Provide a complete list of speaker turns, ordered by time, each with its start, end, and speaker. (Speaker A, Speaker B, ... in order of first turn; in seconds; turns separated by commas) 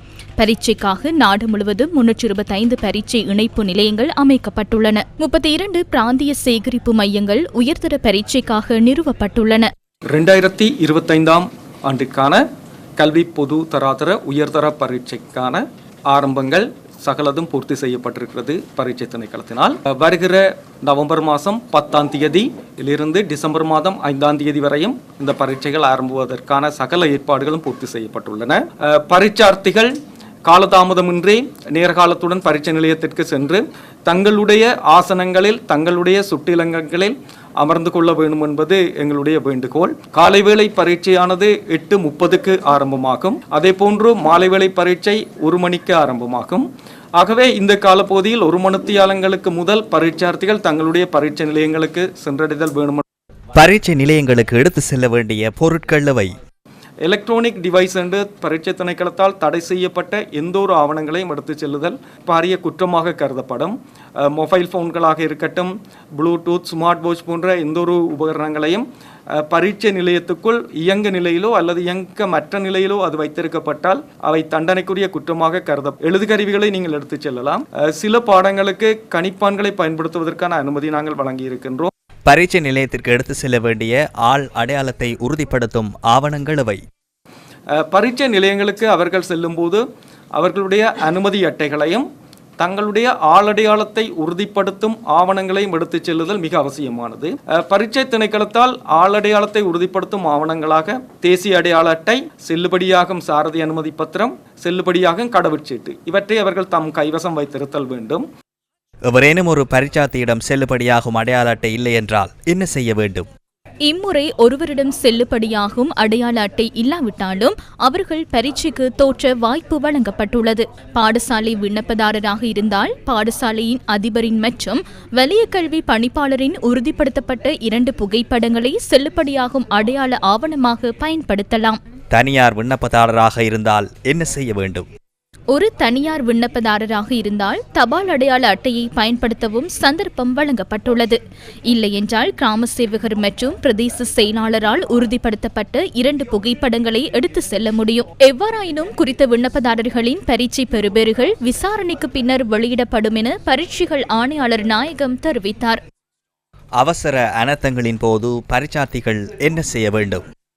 Speaker A: 0.4-9.7, Speaker B: 10.1-12.4, Speaker B: 13.0-29.9, Speaker B: 30.5-53.0, Speaker C: 53.6-56.4, Speaker B: 57.0-81.9, Speaker C: 82.3-86.8, Speaker B: 87.8-89.8, Speaker B: 90.4-92.1, Speaker B: 92.6-108.2, Speaker C: 109.1-113.3, Speaker A: 113.8-131.8, Speaker C: 132.1-134.9, Speaker A: 135.5-155.8, Speaker C: 156.8-160.2